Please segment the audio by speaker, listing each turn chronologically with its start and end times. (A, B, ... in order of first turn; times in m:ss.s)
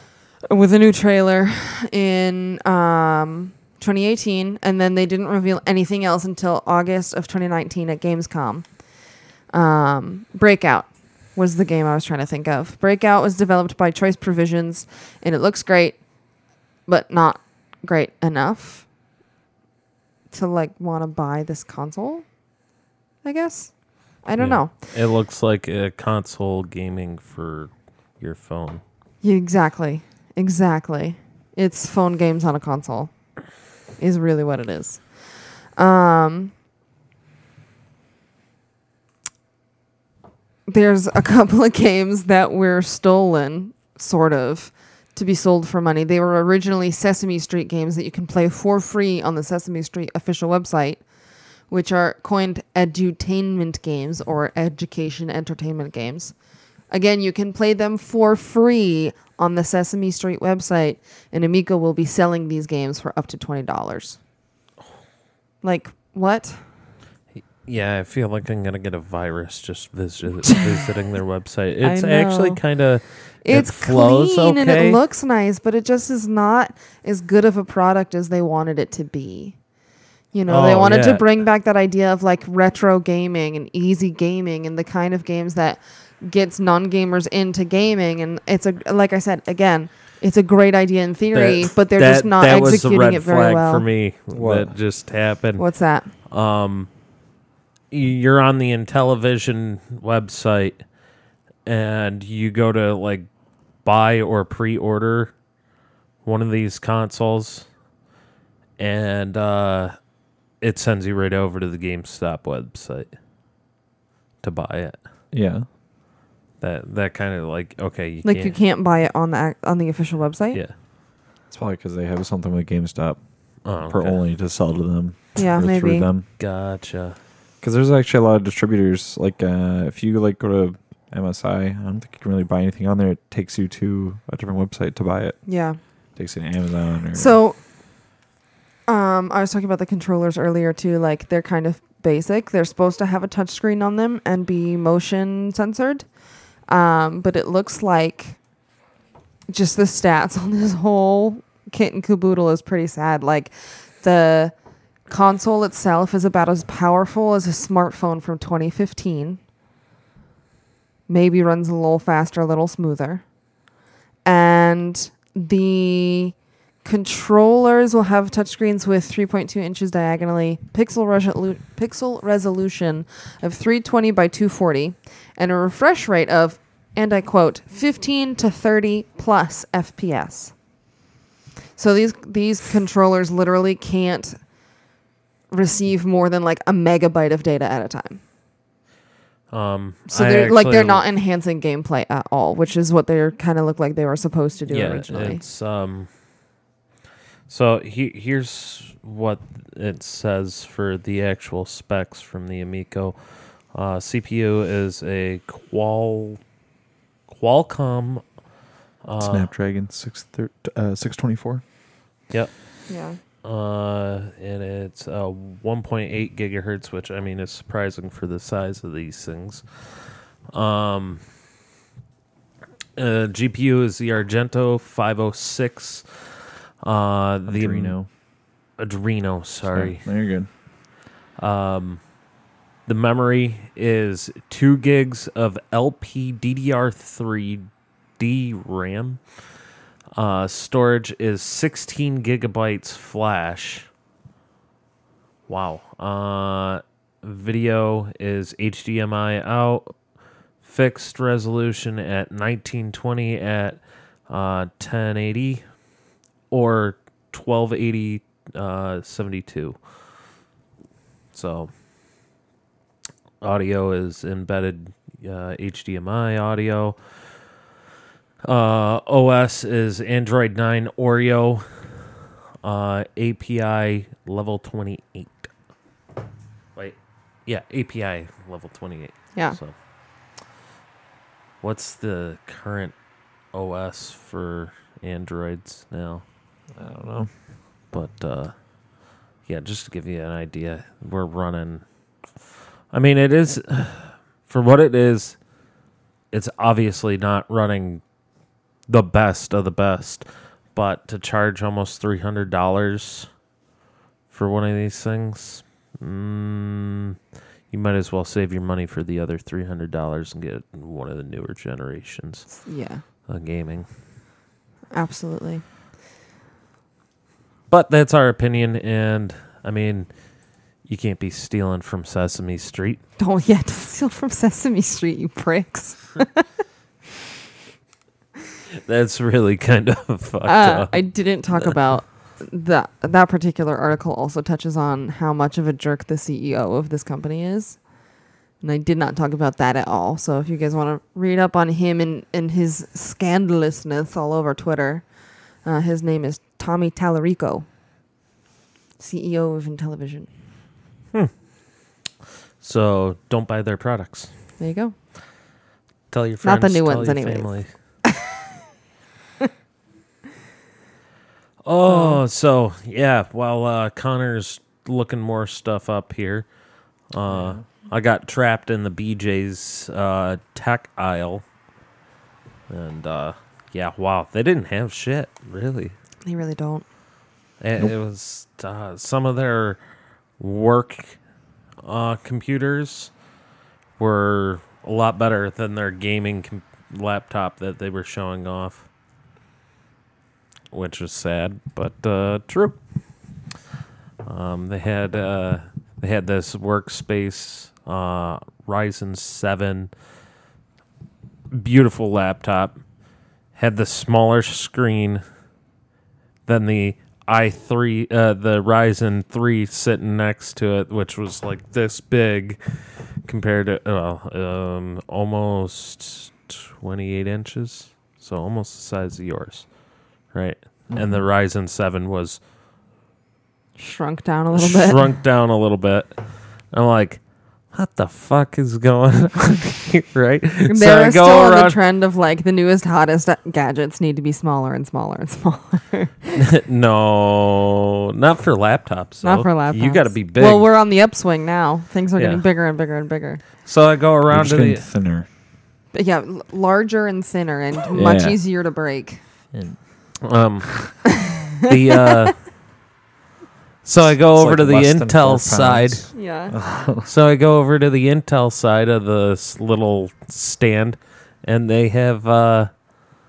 0:00.5-0:08.7 A
0:09.5-0:16.0 A
0:16.9-0:18.9 A
0:20.3-0:22.3 A
0:23.2-0:23.7 A
0:24.2-0:24.7 A
0:24.4-0:28.8 B
0:29.2-0:33.1 A
0:34.0-0:35.0 A
0:35.8-0:36.5 A
0:40.7-0:51.0 A
0:51.7-0:56.3 A
0:56.9-1:04.2 A
1:05.6-1:06.6 A
1:07.7-1:15.0 B
1:11.8-1:12.6 A
1:13.4-1:19.6 A
1:20.3-1:33.8 A
1:20.5-1:21.2 B
1:31.3-1:35.6 B
1:34.3-1:34.7 C
1:35.6-1:36.1 A
1:36.3-1:36.9 B
1:37.9-1:40.8 B
1:41.7-1:43.3 B
1:43.8-1:45.3 B
1:46.2-1:47.7 B
1:48.8-1:49.9 B
1:50.6-1:53.1 B
1:54.4-1:55.0 B
1:55.3-1:55.7 C
1:56.6-1:58.6 B
1:58.2-2:00.6 A
2:01.5-2:03.2 C
2:03.7-2:04.2 B
2:03.9-2:06.2 C
2:05.4-2:06.1 A
2:06.4-2:07.2 B
2:07.6-2:15.4 C
2:15.5-2:15.8 A
2:16.2-2:17.3 C
2:17.1-2:17.6 A
2:18.9-2:26.1 A
2:26.7-2:28.4 A
2:29.5-2:34.5 A
2:35.1-2:39.4 A
2:41.1-2:43.2 A
2:44.2-3:00.5 A
3:01.8-3:04.4 A
3:05.5-3:08.2 A
3:09.5-3:11.0 B
3:10.1-3:15.4 A
3:14.7-3:16.1 B
3:17.5-3:23.2 B
3:23.7-3:26.4 B
3:27.3-3:28.2 B
3:29.0-3:29.5 B
3:29.2-3:31.6 C
3:32.9-3:33.2 A
3:33.4-3:39.6 B
3:40.5-3:41.2 B
3:43.0-3:46.0 B
3:46.8-3:47.9 B
3:47.5-3:48.1 C
3:48.8-3:50.0 B
3:49.6-3:50.5 C
3:51.4-3:52.0 B
3:52.9-3:57.7 B
3:58.2-3:59.2 B
4:00.2-4:03.9 B
4:05.5-4:09.9 B
4:10.6-4:15.6 B
4:16.5-4:19.8 B
4:21.3-4:21.7 B
4:23.4-4:27.0 B
4:28.4-4:31.6 B
4:32.6-4:35.5 B
4:36.8-4:39.7 B
4:41.6-4:42.9 B
4:43.5-4:46.2 B
4:46.8-4:47.3 C
4:47.9-4:48.5 B
4:49.5-4:51.8 B
4:52.9-4:55.4 B
4:56.3-4:58.0 B
4:58.9-5:03.3 B
5:04.3-5:07.2 B
5:07.7-5:12.5 B
5:12.6-5:13.0 A
5:13.3-5:13.9 B
5:14.9-5:15.6 A
5:17.7-5:20.1 B
5:20.8-5:23.0 B
5:23.2-5:26.4 A
5:28.9-5:31.0 B
5:30.5-5:37.8 A
5:38.6-5:45.0 A
5:45.6-5:47.7 A
5:49.0-5:50.3 A
5:52.6-5:54.3 B
5:54.6-5:55.0 A
5:56.1-5:57.7 B
5:56.4-5:57.5 A
6:01.6-6:06.5 B
6:01.9-6:02.2 A
6:07.1-6:11.4 B
6:07.3-6:07.6 C
6:12.7-6:16.0 B
6:16.3-6:16.8 A
6:17.6-6:19.8 B
6:20.4-6:21.2 B
6:21.8-6:23.1 B
6:24.0-6:28.8 B
6:30.7-6:32.8 B
6:34.2-6:39.9 B
6:41.5-6:42.8 B
6:43.6-6:45.2 B
6:46.5-6:52.6 B
6:53.3-6:59.7 B
7:00.3-7:02.4 B
7:00.9-7:01.2 C
7:03.8-7:05.1 A
7:04.5-7:06.1 B
7:06.7-7:07.2 B
7:07.7-7:11.8 B
7:10.7-7:16.4 A
7:16.4-7:20.7 B
7:19.2-7:23.4 A
7:22.2-7:22.4 B
7:23.7-7:24.8 B
7:24.3-7:25.3 C
7:25.9-7:29.2 A
7:27.9-7:28.4 C
7:30.2-7:31.1 B
7:31.1-7:32.1 A
7:31.6-7:32.4 B
7:33.8-7:36.1 B
7:34.0-7:37.1 C
7:36.1-7:36.5 A
7:37.0-7:42.7 B